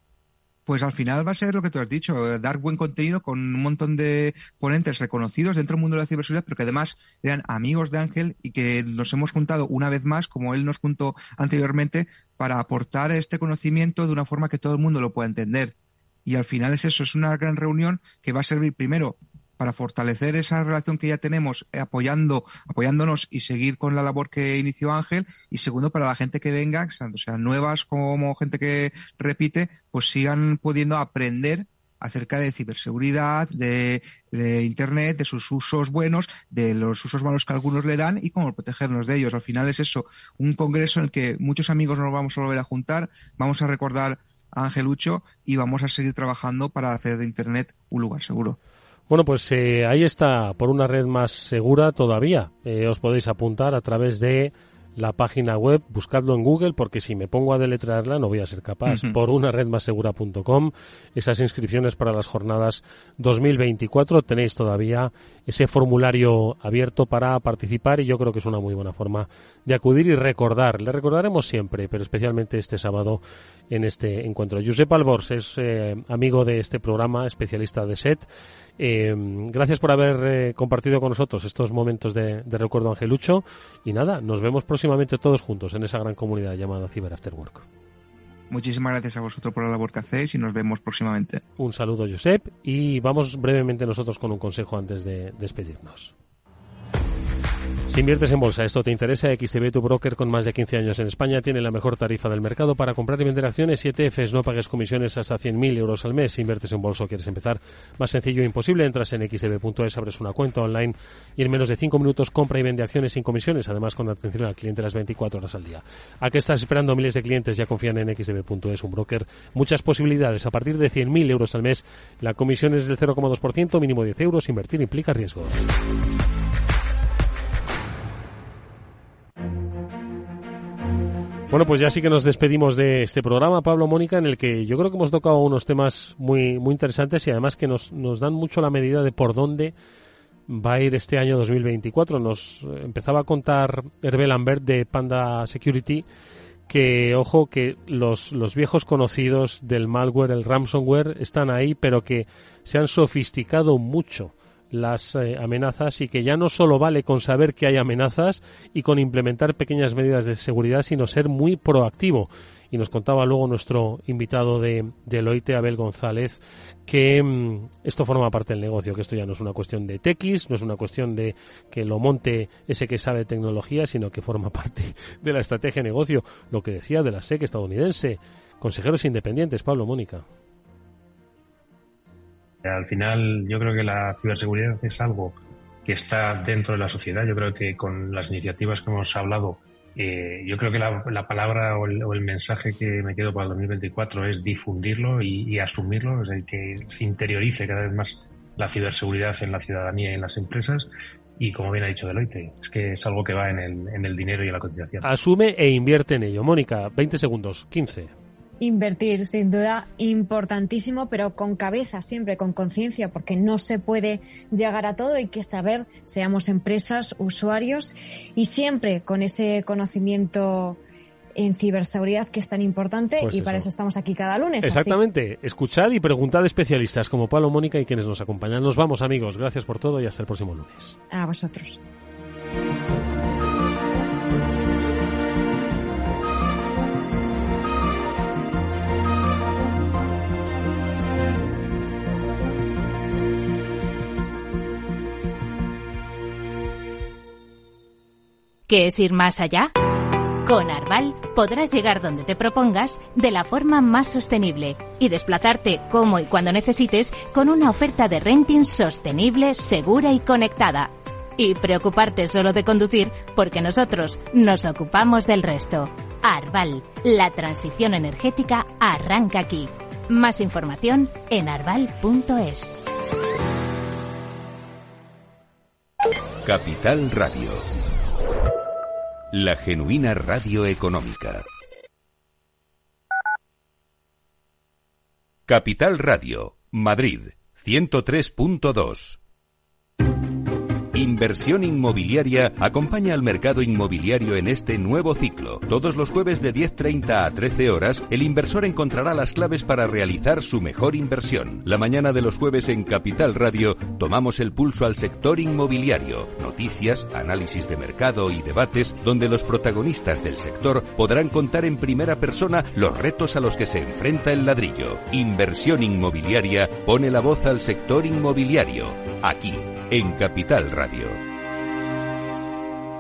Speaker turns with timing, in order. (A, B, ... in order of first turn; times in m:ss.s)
0:00.7-0:15.7 A
0:16.3-0:48.6 A
0:49.1-1:18.3 B
0:58.9-0:59.2 A
1:18.8-1:27.6 B
1:28.5-1:31.4 A
1:31.6-1:36.1 B
1:37.9-2:05.7 B
2:11.5-2:19.7 B
2:20.5-2:26.1 B
2:26.7-3:00.2 B
3:02.6-3:20.9 C
3:21.4-3:25.1 C
3:25.0-3:28.1 B
3:28.6-3:40.8 D
3:41.4-3:45.0 D
3:43.2-3:43.7 B
3:44.6-3:51.0 B
3:51.1-3:51.8 D
4:08.7-4:09.7 E
4:10.4-4:32.8 E
4:36.4-4:37.7 F
4:39.3-4:41.4 F
4:45.5-4:49.2 F
4:50.9-5:21.2 F